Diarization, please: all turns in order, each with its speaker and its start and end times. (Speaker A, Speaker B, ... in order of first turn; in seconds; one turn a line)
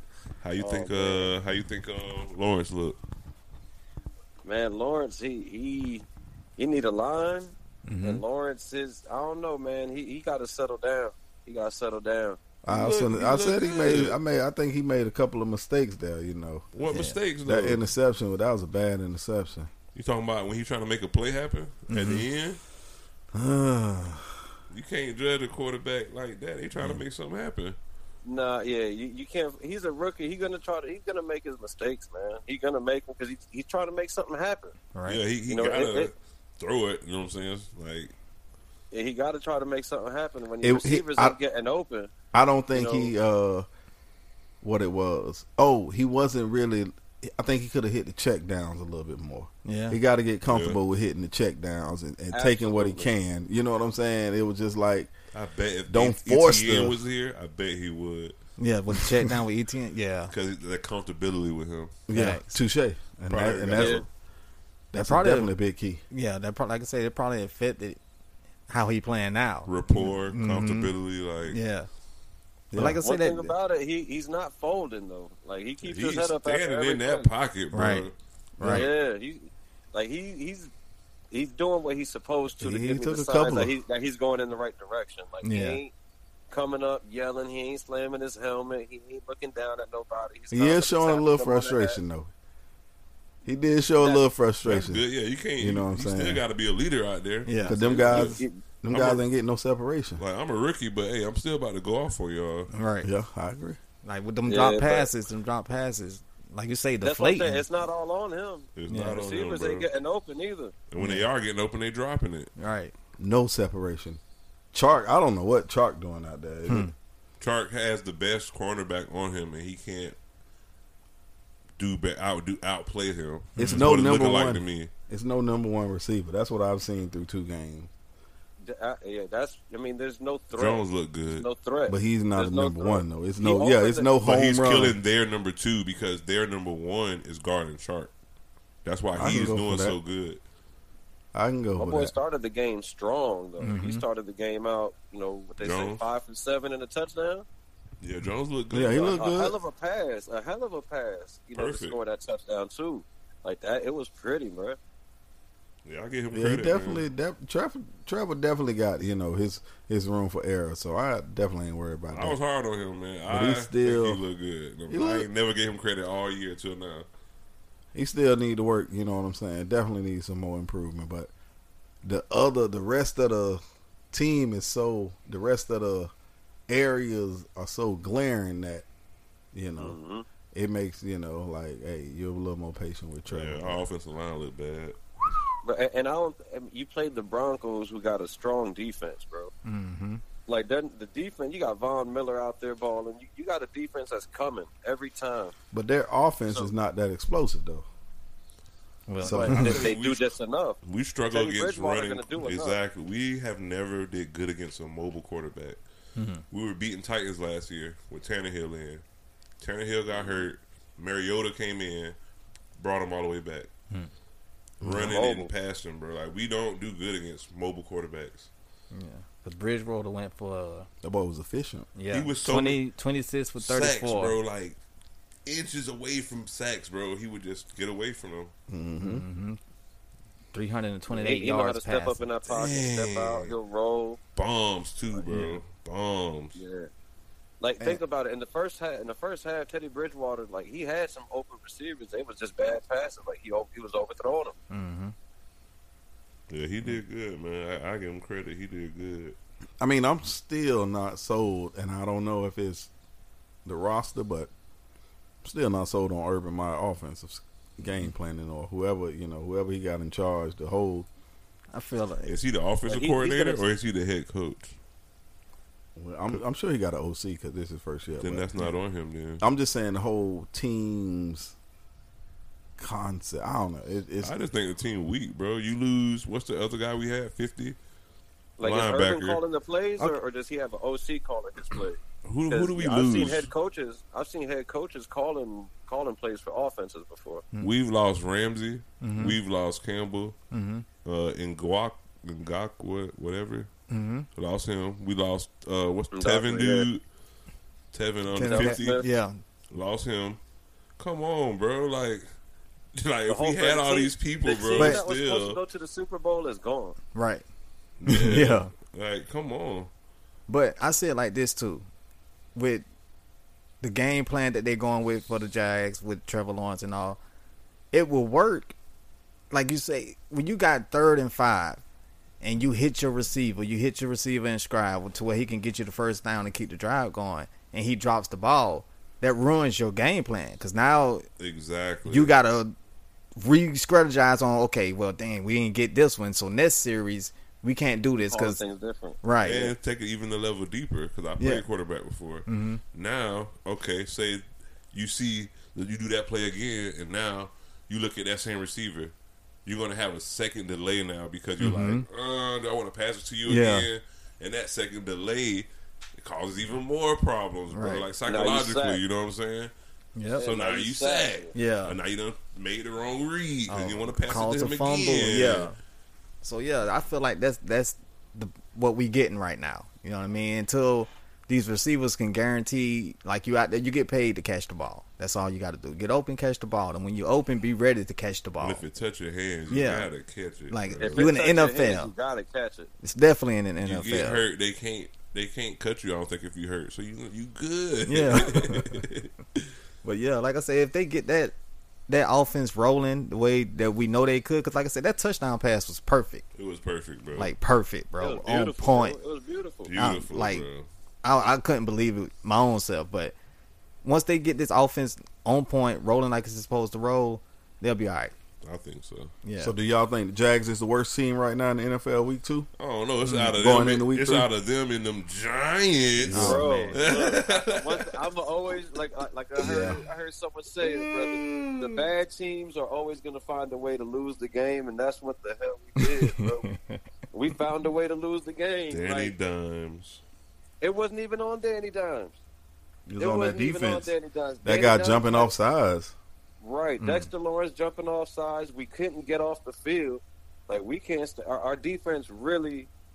Speaker A: 0.4-3.0
Speaker B: 0.6-1.3
Speaker B: 4.4-12.4
Speaker C: 7.9-8.2
Speaker D: 12.6-16.7
Speaker A: 12.7-14.2
Speaker A: 16.7-17.8
Speaker C: 16.9-17.2
Speaker D: 17.4-19.7
Speaker A: 19.9-22.6
Speaker C: 21.9-22.2
Speaker D: 23.3-24.4
Speaker A: 24.7-27.8
Speaker B: 28.2-34.8
Speaker C: 34.9-35.2
Speaker A: 35.1-38.1
Speaker B: 35.5-36.1
Speaker B: 38.9-42.1
Speaker D: 40.6-41.4
Speaker D: 42.3-43.7
Speaker B: 42.7-43.1
Speaker D: 44.6-55.1
Speaker C: 49.6-50.0
Speaker A: 50.5-50.8
Speaker B: 52.3-53.1
Speaker A: 55.3-58.4
Speaker D: 55.9-57.0
Speaker C: 58.6-60.3
Speaker A: 60.3-62.0
Speaker D: 62.1-64.1
Speaker C: 62.1-62.6
Speaker A: 63.3-64.0
Speaker B: 63.8-64.0
Speaker D: 64.9-66.0
Speaker C: 65.0-65.5
Speaker C: 66.1-68.0
Speaker C: 68.7-70.9
Speaker A: 69.7-71.6
Speaker C: 71.5-71.9
Speaker D: 72.7-73.0
Speaker C: 72.8-73.5
Speaker B: 72.8-77.3
Speaker A: 75.8-78.2
Speaker C: 77.7-78.9
Speaker B: 78.7-80.7
Speaker B: 81.3-85.9
Speaker D: 82.6-83.8
Speaker C: 85.4-85.8
Speaker B: 86.5-92.0
Speaker D: 90.5-92.3
Speaker D: 93.5-95.0
Speaker A: 94.7-99.2
Speaker D: 95.6-96.4
Speaker C: 97.5-97.8
Speaker D: 97.6-100.2
Speaker B: 97.8-98.6
Speaker A: 100.2-102.7
Speaker C: 102.7-103.1
Speaker D: 103.0-103.8
Speaker C: 104.0-107.6
Speaker B: 104.5-105.1
Speaker B: 107.0-110.8
Speaker A: 108.8-109.9
Speaker C: 108.9-109.2
Speaker A: 110.9-112.5
Speaker C: 111.0-111.3
Speaker C: 112.6-112.9
Speaker D: 113.2-114.2
Speaker D: 114.7-116.9
Speaker C: 116.7-116.9
Speaker A: 117.4-120.2
Speaker A: 121.8-124.9
Speaker C: 123.6-123.9
Speaker D: 123.6-127.9
Speaker B: 128.6-134.1
Speaker A: 130.5-131.5
Speaker D: 131.9-135.0
Speaker A: 134.2-138.1
Speaker A: 138.8-140.4
Speaker D: 139.2-140.0
Speaker D: 141.3-142.1
Speaker B: 141.8-147.4
Speaker C: 143.6-144.0
Speaker A: 145.6-146.0
Speaker A: 148.0-149.2
Speaker D: 148.7-149.6
Speaker B: 148.9-154.8
Speaker A: 151.6-152.0
Speaker A: 155.8-157.1
Speaker D: 156.3-162.4
Speaker A: 162.1-167.1
Speaker D: 163.3-164.2
Speaker D: 164.9-165.3
Speaker D: 167.9-171.3
Speaker D: 172.0-173.6
Speaker D: 174.1-176.1
Speaker D: 176.7-178.9
Speaker D: 179.5-180.0
Speaker B: 179.8-180.3
Speaker D: 180.5-183.8
Speaker A: 183.3-185.0
Speaker B: 185.6-189.5
Speaker C: 189.7-190.2
Speaker B: 190.5-195.5
Speaker D: 195.7-197.9
Speaker C: 199.1-199.8
Speaker D: 199.2-199.9
Speaker A: 199.3-200.3
Speaker B: 199.3-200.8
Speaker A: 200.8-205.8
Speaker B: 201.3-202.8
Speaker C: 206.2-206.4
Speaker A: 206.5-209.0
Speaker A: 209.6-212.2
Speaker B: 210.1-210.5
Speaker A: 212.8-213.7
Speaker D: 214.8-215.1
Speaker A: 214.8-218.5
Speaker B: 215.0-215.5
Speaker C: 218.9-220.9
Speaker D: 221.0-221.9
Speaker C: 221.9-224.4
Speaker A: 222.1-222.8
Speaker A: 223.6-224.8
Speaker A: 225.5-228.5
Speaker D: 228.7-229.2
Speaker C: 229.0-229.6
Speaker C: 230.5-232.4
Speaker B: 231.1-234.2
Speaker A: 232.5-233.5
Speaker A: 234.3-236.6
Speaker C: 235.3-235.6
Speaker B: 236.6-236.9
Speaker B: 237.6-244.6
Speaker C: 244.7-245.1
Speaker A: 246.5-249.4
Speaker D: 249.8-252.9
Speaker D: 253.7-254.5
Speaker D: 255.4-261.1
Speaker C: 261.7-262.4
Speaker A: 262.3-264.8
Speaker B: 262.9-263.6
Speaker D: 266.0-268.5
Speaker A: 268.2-269.4
Speaker D: 269.4-271.6
Speaker D: 272.8-274.3
Speaker A: 274.2-277.8
Speaker B: 278.6-287.4
Speaker A: 278.6-279.4
Speaker A: 282.2-283.5
Speaker A: 287.6-290.4
Speaker C: 289.0-289.4
Speaker C: 290.5-290.9
Speaker A: 291.1-293.7
Speaker C: 293.9-294.3
Speaker A: 294.3-297.0
Speaker B: 296.1-296.9
Speaker A: 297.9-299.0
Speaker C: 298.3-299.4
Speaker B: 298.4-299.1
Speaker A: 299.7-300.4
Speaker A: 301.0-302.3
Speaker A: 302.9-305.6
Speaker B: 303.3-307.0
Speaker C: 304.8-305.0
Speaker C: 307.1-307.4
Speaker A: 308.0-309.9
Speaker C: 308.1-308.7
Speaker C: 310.5-311.9
Speaker C: 312.6-312.9
Speaker C: 313.8-317.2
Speaker C: 317.9-318.8
Speaker C: 319.5-321.8
Speaker C: 322.4-331.2
Speaker A: 331.4-332.3
Speaker C: 332.1-332.8
Speaker C: 333.4-338.6
Speaker B: 338.2-339.7
Speaker C: 339.2-339.7
Speaker A: 339.4-349.1
Speaker C: 341.4-341.6
Speaker C: 342.5-342.8
Speaker A: 349.6-359.7
Speaker C: 351.6-352.1
Speaker C: 353.5-353.9
Speaker C: 357.7-358.1
Speaker B: 358.2-359.0
Speaker C: 360.2-360.5
Speaker B: 360.4-361.5
Speaker A: 360.4-365.7
Speaker C: 361.5-362.0
Speaker C: 363.7-365.8
Speaker C: 366.4-378.8
Speaker A: 378.6-381.3
Speaker C: 379.7-380.1
Speaker C: 380.7-382.1
Speaker B: 381.0-382.9
Speaker C: 383.0-384.4
Speaker A: 383.8-389.6
Speaker C: 388.1-389.0
Speaker C: 390.0-391.6
Speaker C: 392.1-396.4
Speaker A: 396.6-397.5
Speaker C: 397.4-399.2
Speaker B: 398.2-399.9
Speaker A: 399.9-400.9
Speaker C: 400.0-400.6
Speaker C: 401.2-403.4
Speaker C: 404.0-408.3
Speaker A: 408.6-409.3
Speaker C: 409.4-409.7
Speaker D: 409.6-412.7
Speaker A: 412.8-418.2
Speaker C: 413.2-413.6
Speaker D: 413.5-414.5
Speaker C: 416.3-417.2
Speaker D: 416.3-416.6
Speaker B: 416.3-426.7
Speaker D: 419.6-419.9
Speaker C: 419.6-419.9
Speaker A: 420.8-422.1
Speaker C: 426.0-427.0
Speaker B: 427.3-429.3
Speaker A: 428.9-430.2
Speaker B: 430.8-432.4
Speaker D: 433.1-436.1
Speaker B: 433.2-435.5
Speaker B: 436.6-442.9
Speaker C: 437.0-437.3